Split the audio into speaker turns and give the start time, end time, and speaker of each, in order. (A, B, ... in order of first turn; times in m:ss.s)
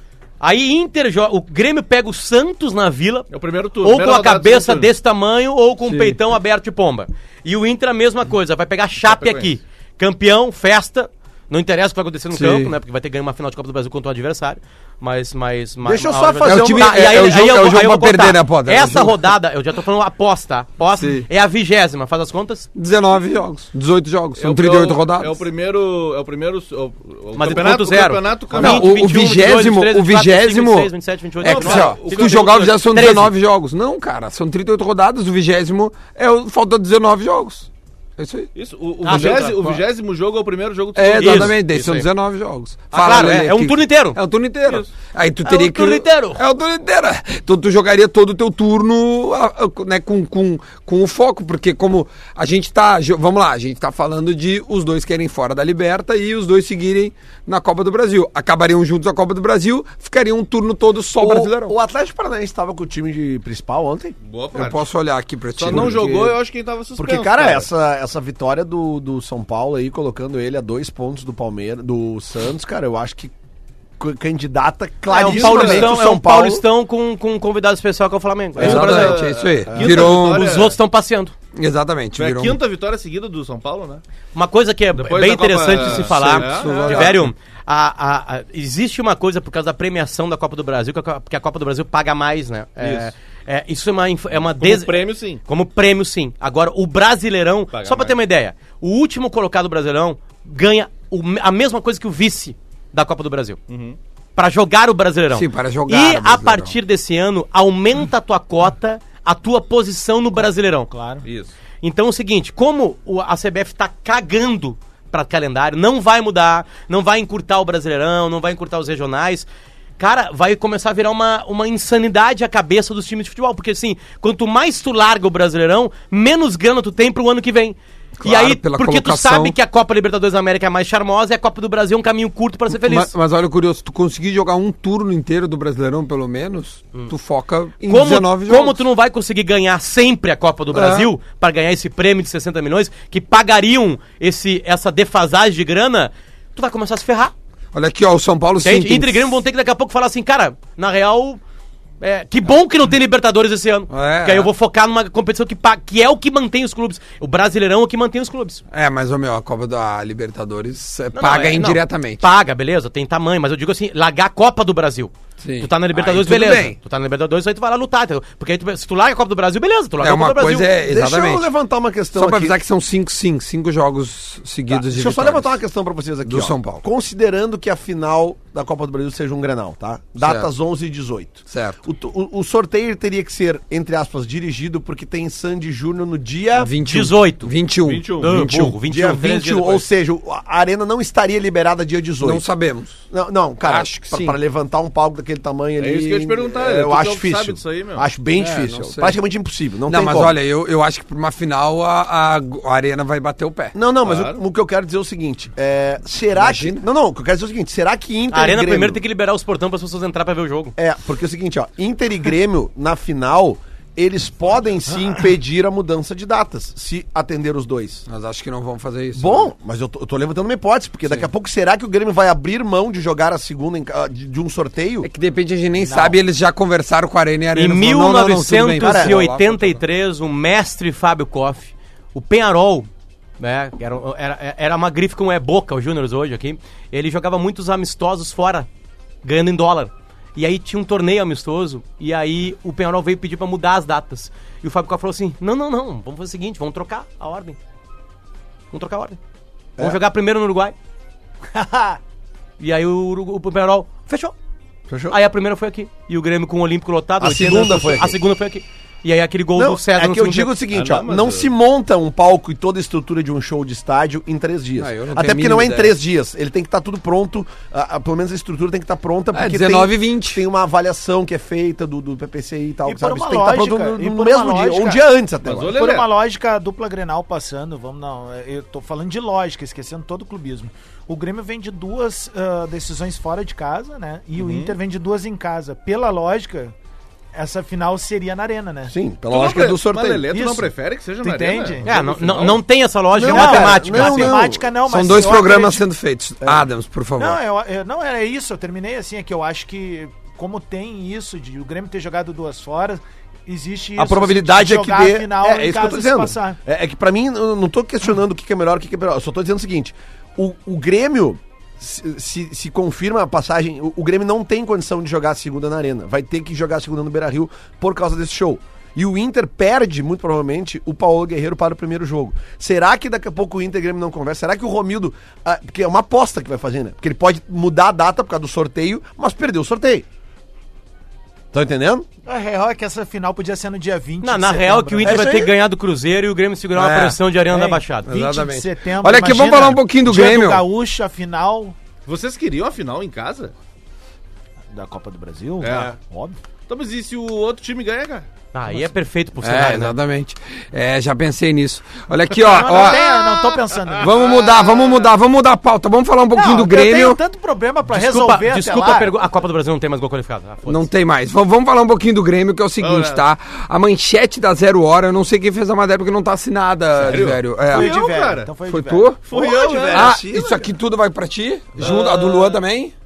0:00.4-0:03.3 A
0:03.3-0:04.9 B
0:03.8-0:22.7 A
0:05.8-0:06.2 C
0:09.0-0:09.6 B
0:12.3-0:12.7 C
0:15.8-0:17.1 D
0:16.4-0:19.3 C
0:21.0-0:21.3 C
0:22.8-0:25.4 C
0:24.4-0:29.0 B
0:27.4-0:33.3 A
0:28.5-0:30.9 C
0:31.4-0:32.7 B
0:31.4-0:38.5 C
0:38.6-0:41.6 B
0:39.0-0:39.6 A
0:39.1-0:39.8 C
0:41.0-1:01.8 C
0:41.2-0:42.1 A
0:42.9-0:44.2 A
0:45.4-0:46.4 A
1:01.2-1:04.2 D
1:04.2-1:04.8 B
1:04.5-1:06.4 C
1:05.6-1:07.7 B
1:05.7-1:06.2 D
1:07.0-1:13.3 D
1:14.0-1:16.6 D
1:15.1-1:19.3 A
1:15.2-1:15.9 B
1:18.6-1:20.5 C
1:18.6-1:20.8 B
1:19.7-1:20.0 D
1:19.8-1:21.3 A
1:21.5-1:22.6 C
1:22.2-1:24.0 B
1:24.3-1:43.6 A
1:25.0-1:27.2 B
1:25.8-1:27.3 C
1:32.8-1:33.1 B
1:34.6-1:35.4 B
1:37.7-1:38.2 B
1:43.7-1:44.0 B
1:44.4-1:50.9 A
1:45.3-1:46.8 C
1:50.9-1:51.2 E
1:51.2-1:51.5 B
1:51.8-1:59.5 A
2:00.0-2:13.1 A
2:08.2-2:09.6 C
2:12.7-2:18.8 C
2:17.8-2:27.3 A
2:20.7-2:21.1 C
2:27.7-2:29.4 C
2:28.6-2:31.4 A
2:32.0-2:38.6 A
2:33.9-2:34.5 C
2:38.7-2:42.2 C
2:41.1-2:50.7 A
2:45.4-2:46.8 C
2:50.0-2:51.5 C
2:50.8-2:52.6 D
2:52.1-2:55.6 C
2:54.7-3:06.7 D
2:56.2-2:56.8 C
3:00.2-3:00.5 C
3:01.5-3:01.8 C
3:06.6-3:08.8 C
3:06.8-3:07.5 A
3:07.8-3:08.4 B
3:08.2-3:09.9 A
3:08.8-3:12.5 D
3:12.2-3:13.0 C
3:13.1-3:20.3 D
3:13.6-3:14.4 C
3:15.8-3:18.1 B
3:18.4-3:19.2 C
3:19.9-3:23.8 C
3:23.7-3:29.0 D
3:24.0-3:24.4 B
3:26.3-3:26.8 C
3:28.3-3:30.8 A
3:30.8-3:38.0 D
3:38.1-3:39.5 C
3:39.2-3:45.1 D
3:45.0-3:49.8 C
3:47.6-3:52.9 A
3:48.8-3:49.2 D
3:53.4-3:58.7 A
3:59.2-4:07.6 A
4:08.7-4:09.2 A
4:09.8-4:10.8 A
4:11.5-4:12.0 E
4:12.6-4:14.4 A
4:14.9-4:15.2 D
4:15.1-4:20.5 A
4:17.2-4:18.2 D
4:19.6-4:35.8 D
4:20.7-4:21.5 B
4:24.8-4:26.0 C
4:29.3-4:30.4 C
4:32.8-4:35.0 E
4:35.4-4:36.1 B
4:35.7-4:46.7 E
4:44.4-4:44.8 B
4:47.3-4:49.0 E
4:48.9-4:50.3 D
4:49.3-4:52.6 B
4:50.3-4:51.9 E
4:51.8-4:54.4 A
4:53.1-4:54.7 D
4:53.3-4:55.8 E
4:54.9-4:57.4 C
4:57.2-5:06.6 E
5:04.0-5:30.1 D
5:31.5-5:32.1 D
5:32.3-5:35.3 E
5:34.2-5:38.1 A
5:35.0-5:35.5 D
5:36.7-5:37.2 C
5:37.5-5:41.8 E
5:38.1-5:40.6 C
5:42.1-5:43.5 B
5:44.7-5:46.4 E
5:45.6-5:46.0 B
5:46.7-5:48.3 B
5:48.5-5:50.0 A
5:49.4-5:53.1 C
5:52.4-5:54.1 E
5:52.5-5:53.0 B
5:53.8-5:55.1 B
5:54.0-5:57.2 C
5:56.3-5:59.1 E
5:57.9-6:00.9 A
6:00.7-6:07.9 C
6:02.8-6:03.2 B
6:07.0-6:08.5 B
6:07.0-6:09.2 E
6:08.7-6:09.2 C
6:09.3-6:10.2 B
6:09.3-6:10.7 D
6:09.9-6:12.9 C
6:11.8-6:12.6 B